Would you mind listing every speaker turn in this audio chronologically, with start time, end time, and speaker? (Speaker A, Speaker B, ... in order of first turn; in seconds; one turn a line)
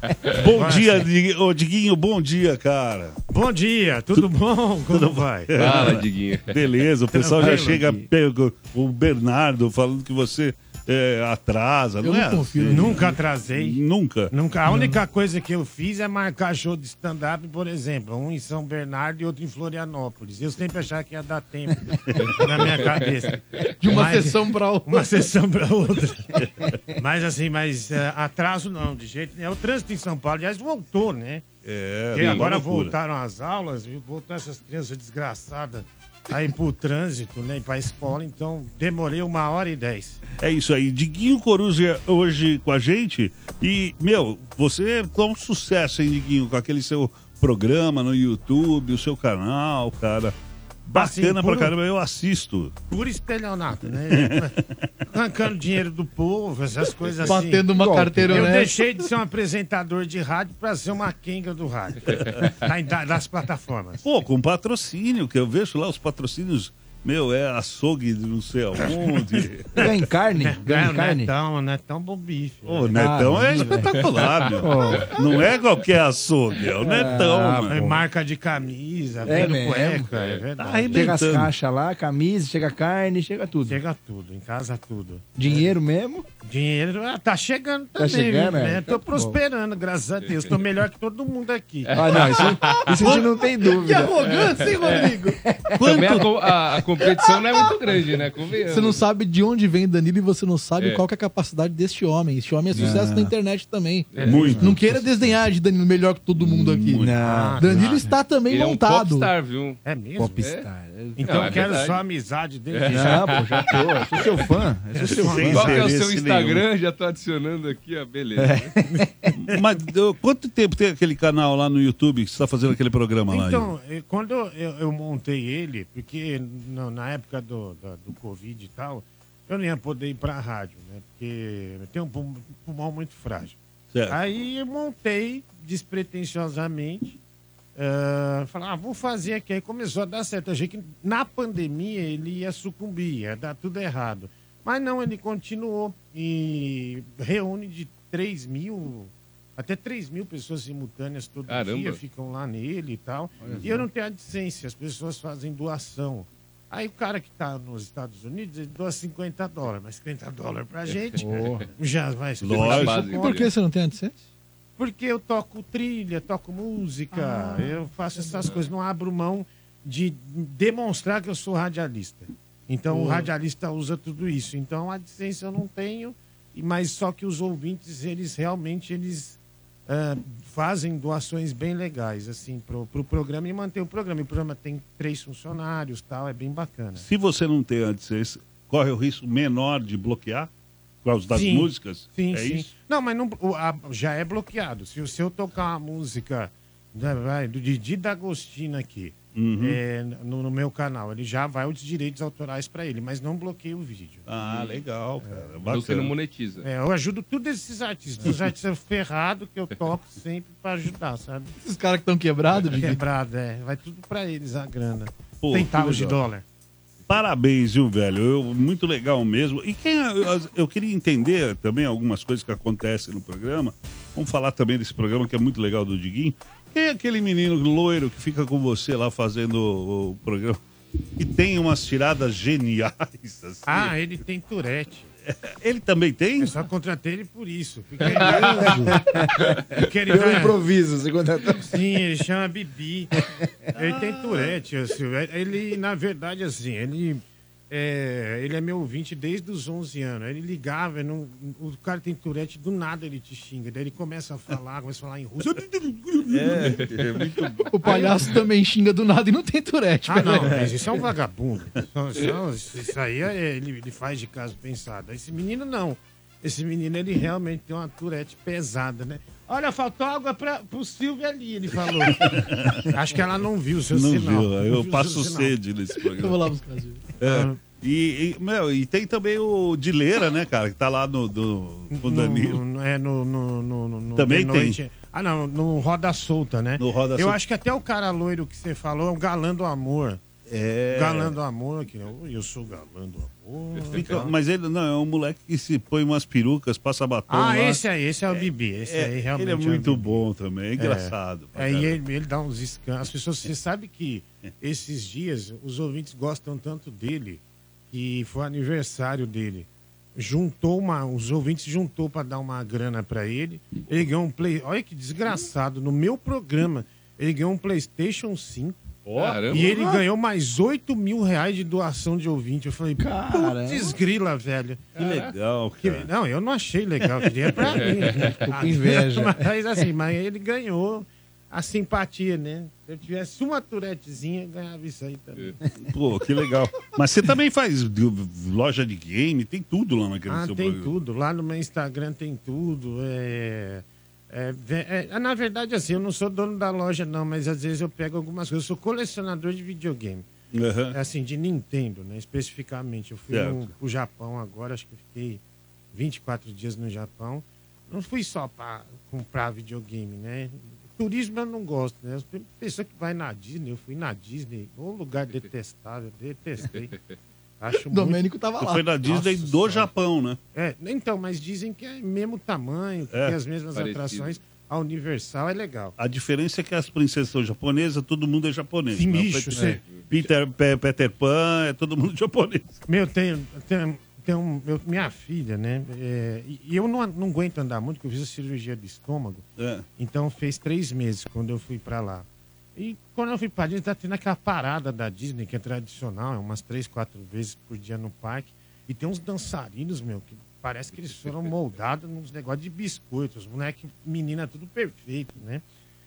Speaker A: 0.3-3.1
Speaker B: 0.3-1.1
Speaker B: 3.3-5.9
Speaker A: 4.9-14.3
Speaker C: 5.6-6.6
Speaker B: 7.1-8.0
Speaker D: 12.0-13.1
Speaker B: 12.7-26.3
Speaker A: 22.1-22.3
Speaker D: 23.8-25.0
Speaker A: 26.4-26.8
Speaker B: 26.9-31.4
Speaker A: 31.6-32.9
Speaker B: 32.1-40.2
Speaker C: 32.1-32.5
Speaker A: 40.4-50.3
Speaker A: 50.8-52.7
Speaker B: 50.9-51.7
Speaker B: 52.9-54.5
Speaker A: 54.1-54.8
Speaker B: 55.1-57.7
Speaker D: 57.2-58.7
Speaker E: 57.3-58.6
Speaker B: 58.3-64.0
Speaker A: 62.2-62.4
Speaker A: 64.0-69.9
Speaker B: 68.8-69.8
Speaker E: 69.8-71.3
Speaker B: 70.4-74.2
Speaker A: 72.6-78.0
Speaker E: 72.9-73.9
Speaker E: 74.6-75.1
Speaker B: 76.8-81.2
Speaker E: 76.8-78.0
Speaker E: 79.2-80.1
Speaker C: 80.1-80.4
Speaker A: 80.6-81.5
Speaker E: 80.9-83.8
Speaker B: 83.7-85.7
Speaker E: 85.3-86.2
Speaker B: 86.4-92.3
Speaker E: 88.0-89.4
Speaker C: 91.8-92.8
Speaker E: 91.9-94.4
Speaker D: 93.7-95.4
Speaker C: 94.3-95.1
Speaker E: 95.4-96.1
Speaker A: 95.8-96.3
Speaker C: 95.8-99.0
Speaker D: 97.4-97.7
Speaker D: 98.7-107.1
Speaker E: 102.8-103.0
Speaker A: 102.8-103.3
Speaker C: 104.1-104.5
Speaker B: 104.2-104.7
Speaker A: 104.2-104.8
Speaker E: 104.4-105.3
Speaker A: 106.4-107.2
Speaker E: 107.0-108.1
Speaker B: 107.2-107.8
Speaker D: 107.6-109.3
Speaker C: 108.5-109.8
Speaker B: 109.8-110.4
Speaker E: 110.2-111.7
Speaker C: 110.4-110.7
Speaker B: 111.1-113.4
Speaker C: 111.2-112.0
Speaker C: 112.7-114.4
Speaker E: 112.9-115.9
Speaker B: 115.0-115.8
Speaker A: 115.1-116.6
Speaker C: 115.5-118.7
Speaker E: 118.3-119.3
Speaker B: 118.9-119.7
Speaker A: 119.4-123.7
Speaker B: 123.3-133.6
Speaker A: 133.9-134.2
Speaker B: 134.1-137.2
Speaker B: 137.8-163.5
Speaker C: 151.5-152.0
Speaker E: 153.4-153.8
Speaker E: 161.2-161.7
Speaker A: 162.4-163.3
Speaker C: 162.6-163.2
Speaker D: 162.7-164.2
Speaker B: 164.8-187.0
Speaker D: 167.1-168.3
Speaker D: 172.9-173.2
Speaker A: 187.0-190.5
Speaker A: 191.0-192.7
Speaker B: 191.3-205.7
Speaker A: 199.3-199.8
Speaker A: 204.2-206.1
Speaker C: 205.7-206.6
Speaker B: 206.6-211.5
Speaker D: 211.6-213.0
Speaker B: 212.6-216.4
Speaker A: 215.4-216.2
Speaker A: 217.1-230.6
Speaker A: 231.2-233.9
Speaker B: 233.7-235.1
Speaker A: 235.3-236.5
Speaker B: 236.4-240.6
Speaker E: 238.1-239.5
Speaker E: 240.1-241.7
Speaker B: 241.6-243.1
Speaker B: 243.7-256.9
Speaker A: 256.3-257.5
Speaker D: 257.6-260.5
Speaker B: 257.8-258.3
Speaker B: 260.1-275.5
Speaker A: 272.1-272.9
Speaker A: 273.9-276.4
Speaker D: 276.0-277.0
Speaker A: 277.2-282.6
Speaker B: 277.2-277.6
Speaker B: 281.9-290.2
Speaker A: 284.1-284.8
Speaker A: 286.8-287.4
Speaker A: 290.5-291.4
Speaker B: 290.9-294.3
Speaker A: 293.8-301.9
Speaker B: 297.3-300.2
Speaker B: 300.8-318.9
Speaker A: 319.0-319.7
Speaker C: 319.2-319.7
Speaker B: 319.5-335.6
Speaker E: 319.5-320.0
Speaker E: 323.0-324.0
Speaker A: 325.0-326.1
Speaker C: 325.0-325.3
Speaker C: 327.7-328.3
Speaker E: 328.4-329.4
Speaker A: 335.9-340.9
Speaker B: 340.3-350.3
Speaker A: 350.5-350.9
Speaker B: 350.9-355.4
Speaker A: 353.3-353.7
Speaker B: 355.9-366.9
Speaker C: 366.7-367.1
Speaker B: 367.6-368.2
Speaker D: 367.9-368.9
Speaker A: 368.6-370.4
Speaker B: 369.0-369.9
Speaker B: 370.5-375.9
Speaker A: 373.1-373.4
Speaker C: 373.7-374.3
Speaker A: 376.0-382.6
Speaker B: 378.9-380.3
Speaker B: 382.9-405.6
Speaker A: 389.6-389.9